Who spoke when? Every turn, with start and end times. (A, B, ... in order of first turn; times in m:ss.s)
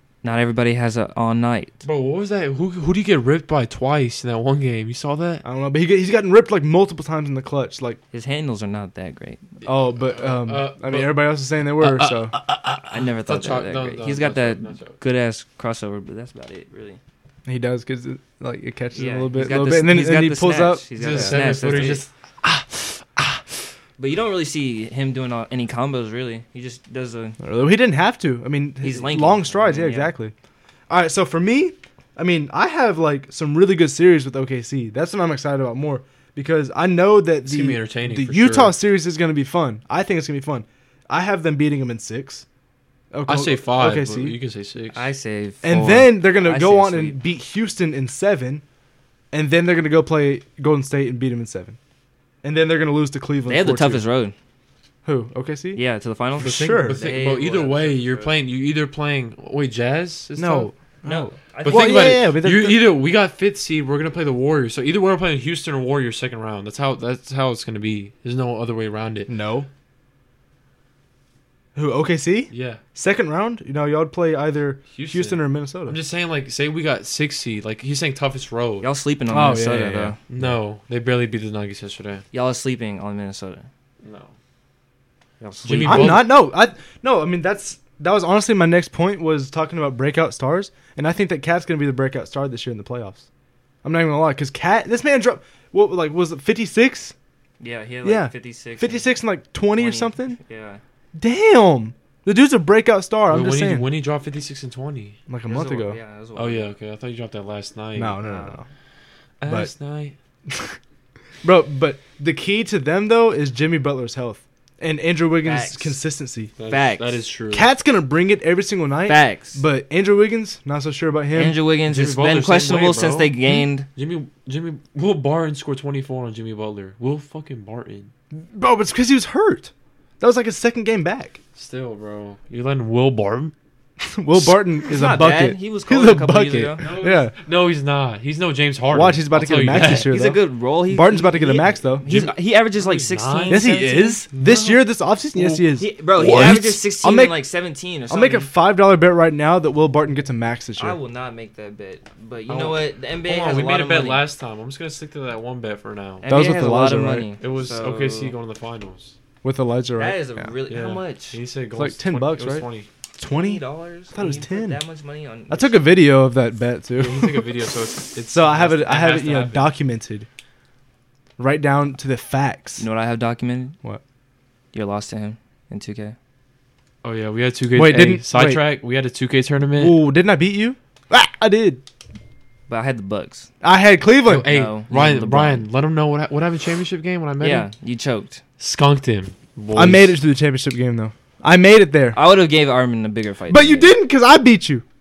0:00.2-0:01.8 A
0:01.8-0:05.4 B
0:05.4-0:08.0 C
0:08.1-0:09.4 A
0:09.6-0:11.3 B
0:09.6-0:12.4 C
0:11.8-0:15.0 B
0:12.9-0:17.0 A
0:17.4-0:23.4 C
0:18.9-0:22.0 A
0:21.0-0:22.1 B
0:24.0-0:27.4 A
0:27.4-0:30.3 C
0:28.8-0:30.1 A
0:30.9-0:42.4 C
0:37.4-0:38.8 B
0:43.1-0:44.4 C
0:43.2-0:45.1 B
0:44.9-0:47.2 A
0:45.6-0:48.6 C
0:49.3-0:51.8 C
0:52.4-0:54.0 C
0:53.5-0:54.3 A
0:55.0-0:55.8 C
0:55.8-0:58.3 A
0:56.4-0:57.0 C
0:56.4-1:00.7 B
1:00.4-1:02.8 C
1:01.0-1:02.2 A
1:01.6-1:09.3 B
1:09.3-1:09.7 C
1:11.8-1:16.0 C
1:12.5-1:12.8 B
1:14.9-1:18.9 B
1:18.8-1:20.2 A
1:19.3-1:20.5 C
1:20.3-1:22.2 B
1:22.3-1:23.6 A
1:24.0-1:24.3 B
1:25.4-1:26.2 A
1:25.6-1:26.3 B
1:25.8-1:33.2 C
1:33.8-1:37.1 C
1:37.6-1:39.1 A
1:38.0-1:40.4 C
1:39.8-1:40.8 A
1:41.2-1:43.9 C
1:43.3-1:45.2 B
1:45.3-1:46.0 C
1:45.5-1:46.7 A
1:46.3-1:48.2 B
1:48.0-1:48.6 C
1:48.2-1:48.6 A
1:49.4-1:50.2 B
1:49.5-1:49.7 C
1:50.5-1:50.8 C
1:51.4-1:56.5 C
1:55.4-1:56.0 A
1:56.6-1:57.7 B
1:56.7-1:57.2 A
1:57.5-2:01.6 C
1:59.1-1:59.6 A
2:01.3-2:03.9 A
2:01.9-2:03.3 B
2:04.0-2:08.1 B
2:08.3-2:11.4 C
2:11.6-2:13.5 B
2:14.0-2:17.3 C
2:14.8-2:16.9 A
2:16.8-2:20.1 B
2:18.9-2:22.0 C
2:19.7-2:24.2 A
2:22.0-2:23.7 B
2:23.5-2:27.4 C
2:24.3-2:25.7 B
2:25.8-2:28.5 A
2:28.1-2:31.0 C
2:30.8-2:34.2 A
2:32.5-2:36.2 B
2:36.2-2:38.3 A
2:36.3-2:37.3 C
2:37.4-2:39.2 B
2:39.4-2:40.5 C
2:40.0-2:41.4 A
2:40.7-2:42.9 B
2:41.8-2:42.7 C
2:43.2-2:44.8 C
2:43.2-2:45.8 A
2:45.5-2:47.4 C
2:47.0-2:49.7 B
2:48.3-2:50.3 C
2:51.4-2:52.8 C
2:52.8-2:53.8 A
2:54.7-2:56.1 A
2:57.0-3:00.0 B
2:57.8-2:58.6 C
2:59.8-3:01.8 C
3:02.7-3:03.5 A
3:03.6-3:04.5 C
3:04.2-3:07.7 B
3:04.4-3:05.6 A
3:07.4-3:08.4 A
3:08.6-3:10.2 B
3:09.8-3:12.2 C
3:12.1-3:13.9 A
3:13.5-3:14.8 C